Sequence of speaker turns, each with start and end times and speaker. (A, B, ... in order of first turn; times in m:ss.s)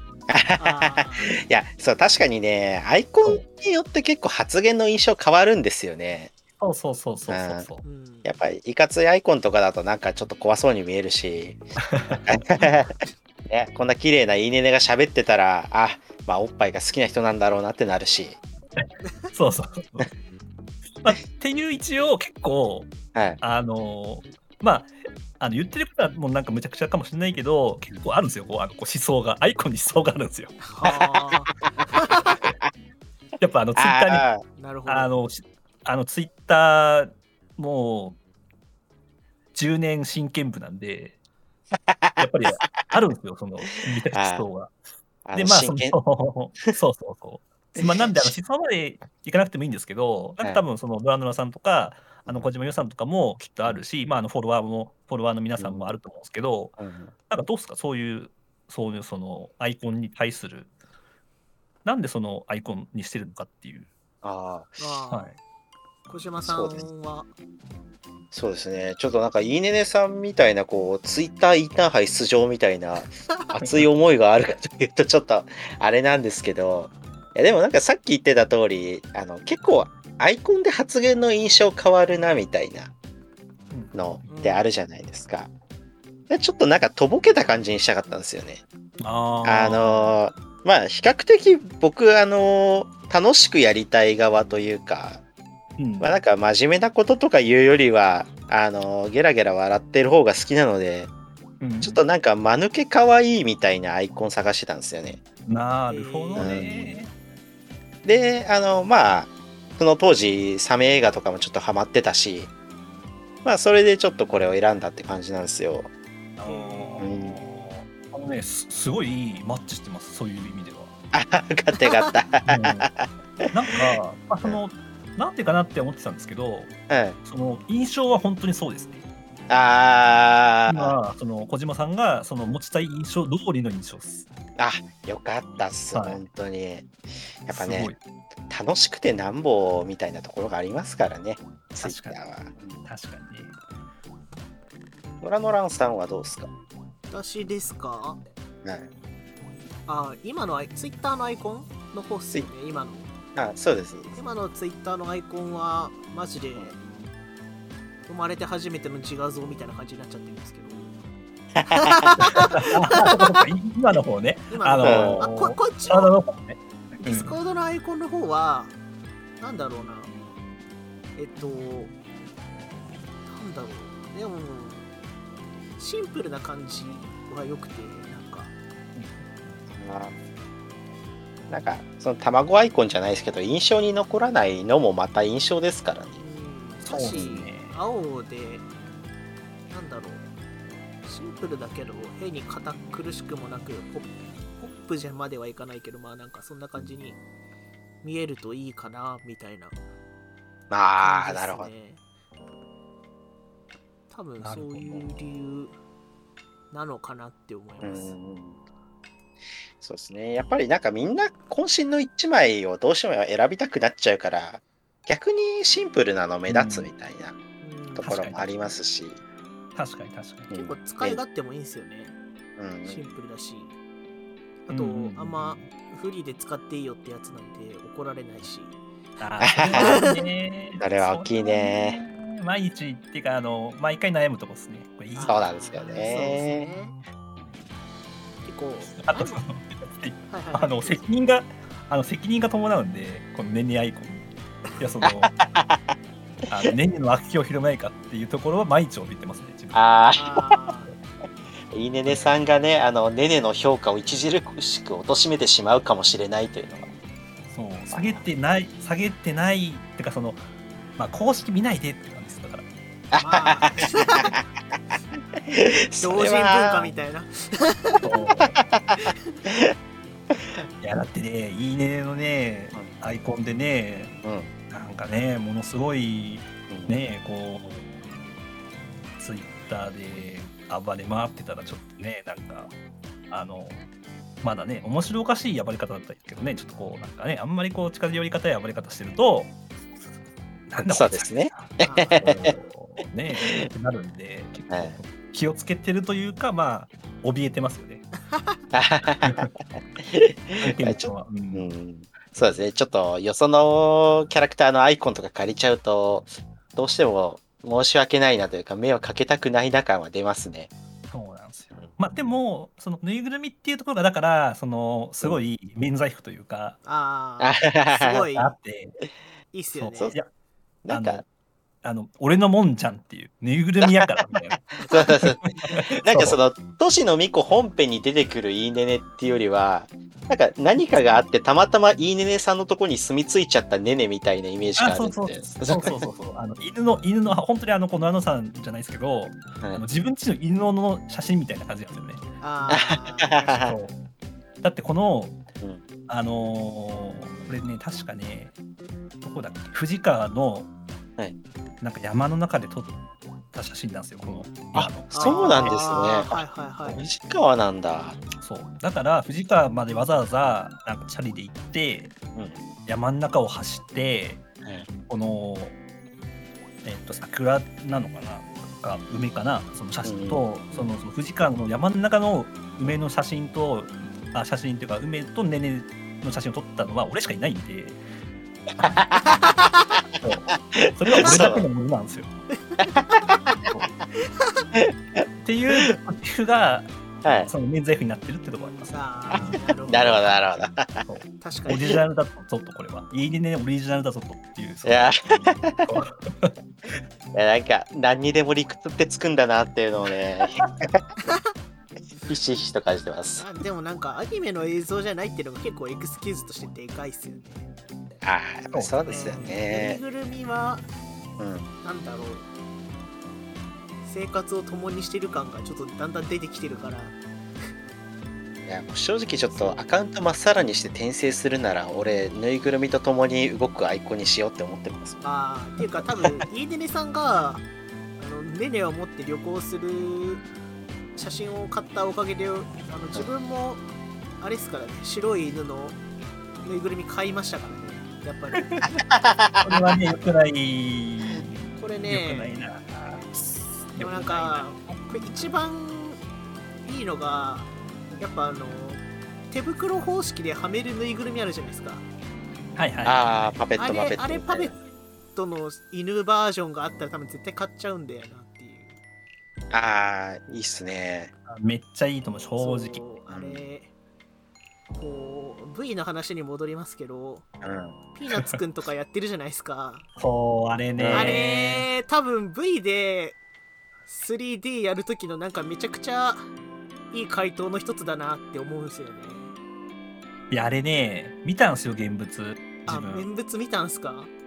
0:00.3-0:06.3 A
0:00.6-0:01.4 B
0:06.6-0:07.8 C
0:07.3-0:07.7 A
0:07.8-0:08.3 B
0:08.2-0:11.6 A
0:11.8-0:12.3 C
0:12.3-0:12.9 A
0:13.5-0:18.4 A
0:18.8-0:20.1 C
0:21.0-0:30.6 C
0:23.1-0:23.4 A
0:30.6-0:32.4 B
0:30.8-0:31.3 A
0:33.4-0:34.2 C
0:33.8-0:34.4 A
0:34.6-0:35.1 B
0:34.9-0:38.2 C
0:39.5-0:41.2 C
0:41.8-0:42.3 A
0:42.2-0:44.7 C
0:44.1-0:44.4 A
0:45.2-0:46.0 A
0:45.3-0:56.8 C
0:47.8-0:48.3 A
0:55.6-0:55.9 A
0:56.8-0:57.1 A
0:57.3-1:00.7 C
1:01.8-1:03.9 C
1:04.2-1:04.8 A
1:04.8-1:05.3 B
1:05.1-1:05.4 C
1:06.1-1:07.3 B
1:06.4-1:06.8 A
1:08.3-1:22.9 A
1:23.7-1:24.4 C
1:23.9-1:25.5 A
1:24.3-1:24.6 B
1:26.3-1:28.6 A
1:29.0-1:30.2 C
1:29.4-1:35.2 A
1:35.8-1:36.2 C
1:36.0-1:41.1 A
1:41.6-1:42.0 C
1:41.8-1:45.2 A
1:45.5-1:47.1 C
1:45.9-1:46.6 B
1:46.4-1:47.0 A
1:48.0-1:52.5 A
1:53.4-1:55.9 A
1:56.4-2:00.9 C
1:56.4-1:57.1 B
1:57.0-1:57.4 A
2:01.1-2:04.6 A
2:01.8-2:02.1 B
2:02.4-2:02.9 C
2:03.5-2:06.7 C
2:06.9-2:07.2 A
2:07.2-2:09.0 C
2:09.5-2:11.0 A
2:10.7-2:14.2 C
2:14.6-2:16.9 A
2:15.9-2:16.2 C
2:17.4-2:17.9 A
2:17.5-2:18.0 C
2:18.5-2:22.8 A
2:21.8-2:22.2 C
2:22.8-2:23.5 C
2:25.2-2:26.5 A
2:27.1-2:28.2 B
2:28.6-2:28.9 A
2:29.9-2:33.1 B
2:33.3-2:34.1 A
2:34.1-2:36.8 B
2:38.1-2:40.9 B
2:41.6-2:42.3 A
2:41.6-2:43.4 B
2:42.4-2:47.3 C
2:44.5-2:46.1 B
2:44.8-2:45.2 A
2:47.0-2:48.7 B
2:49.4-2:50.1 B
2:51.2-2:51.9 B
2:53.3-2:54.9 B
2:55.8-2:58.5 B
2:59.0-2:59.2 C
2:59.7-3:00.1 A
3:01.5-3:06.2 A
3:06.2-3:08.7 B
3:06.8-3:07.8 C
3:09.7-3:10.3 B
3:11.0-3:17.2 B
3:18.0-3:19.8 B
3:20.7-3:21.7 A
3:21.0-3:22.0 B
3:24.1-3:25.7 B
3:24.4-3:25.0 C
3:26.7-3:28.1 B
3:27.8-3:28.6 A
3:29.8-3:37.4 A
3:36.5-3:36.9 C
3:37.6-3:38.2 B
3:38.0-3:39.2 A
3:38.0-3:38.5 C
3:39.7-3:40.5 C
3:40.5-3:41.2 A
3:40.5-3:42.2 B
3:42.6-3:43.0 A
3:42.8-3:43.7 B
3:44.7-3:48.8 B
3:44.7-3:45.6 C
3:49.2-3:55.4 C
3:49.4-3:50.0 A
3:49.7-3:50.2 B
3:50.8-3:52.0 A
3:55.1-3:57.0 B
3:55.3-3:56.7 A
3:58.4-3:59.4 B
3:58.9-4:04.3 C
4:00.3-4:01.0 B
4:04.8-4:05.3 C
4:05.0-4:05.9 A
4:06.5-4:09.8 C
4:09.7-4:10.6 A
4:10.1-4:10.9 B
4:11.7-4:16.9 A
4:12.0-4:12.3 C
4:17.5-4:20.4 C
4:17.9-4:18.2 A
4:21.0-4:22.7 C
4:23.1-4:24.4 A
4:23.2-4:24.4 B
4:25.4-4:26.9 A
4:26.0-4:28.0 B
4:28.0-4:28.5 C
4:28.4-4:29.7 A
4:30.8-4:34.1 C
4:34.2-4:34.5 A
4:34.7-4:37.9 C
4:36.7-4:37.0 A
4:39.2-4:42.7 C
4:43.3-4:43.8 C
4:44.4-4:49.5 C
4:50.7-4:58.0 C
4:50.9-4:52.5 A
4:51.8-4:52.2 B
4:53.4-4:53.7 A
4:54.7-4:55.0 A
4:58.7-4:59.5 A
4:59.2-4:59.5 C
5:00.0-5:10.7 A
5:00.6-5:01.7 C
5:11.1-5:16.8 C
5:16.8-5:18.5 B
5:17.4-5:18.3 A
5:18.4-5:19.0 C
5:19.5-5:20.2 B
5:19.7-5:20.3 C
5:20.8-5:21.2 A
5:20.9-5:21.2 C
5:21.8-5:26.4 C
5:23.8-5:24.2 A
5:24.8-5:25.1 B
5:24.9-5:36.0 A
5:34.8-5:42.2 C
5:42.4-5:43.7 B
5:42.7-5:43.7 A
5:43.6-5:43.9 C
5:44.6-5:45.4 C
5:46.1-5:48.5 C
5:49.2-5:50.7 C
5:51.8-5:52.9 C
5:53.5-5:55.8 C
5:54.5-5:58.2 A
5:55.1-5:57.0 B
5:58.4-6:02.1 C
6:02.3-6:02.6 A
6:02.8-6:04.4 C
6:05.0-6:05.8 C
6:06.8-6:18.0 C
6:10.0-6:10.4 A
6:10.7-6:11.0 B
6:18.8-6:19.0 C
6:18.8-6:19.4 A
6:19.2-6:20.0 B
6:20.2-6:22.3 C
6:20.7-6:21.6 A
6:22.7-6:23.2 B
6:24.2-6:24.7 B
6:24.7-6:25.8 A
6:25.4-6:26.9 C
6:27.2-6:27.5 A
6:27.4-6:29.6 C
6:28.9-6:30.3 B
6:29.3-6:31.0 A
6:31.0-6:35.2 C
6:31.4-6:31.9 B
6:34.8-6:35.9 A
6:35.8-6:36.5 C
6:37.3-6:41.0 A
6:42.3-6:43.4 A
6:43.4-6:47.7 B
6:48.2-6:50.0 A
6:48.7-6:49.3 C
6:49.1-6:50.8 B
6:51.4-6:51.7 A
6:51.8-6:52.4 B
6:54.0-6:57.2 B
6:58.6-7:05.2 A
6:59.5-6:59.9 B
7:05.2-7:07.6 B
7:08.2-7:10.4 B
7:11.2-7:13.8 B
7:14.4-7:16.0 B
7:16.6-7:18.7 B
7:18.6-7:18.9 C
7:19.1-7:20.0 A
7:19.6-7:25.4 C
7:21.8-7:22.5 B
7:24.0-7:26.2 B
7:26.8-7:32.0 B
7:32.8-7:33.5 C
7:33.0-7:34.8 A
7:33.8-7:34.8 B
7:35.3-7:39.0 B
7:39.7-7:41.3 A
7:41.5-7:43.0 C
7:42.6-7:43.9 B
7:43.3-7:43.6 A
7:45.0-7:47.4 B
7:47.6-7:48.0 A
7:48.1-7:50.0 B
7:50.2-7:51.9 C
7:51.0-7:51.4 A
7:51.1-7:53.4 B
7:54.1-7:56.5 B
7:57.1-7:59.5 B
8:00.5-8:03.3 C
8:02.9-8:04.3 B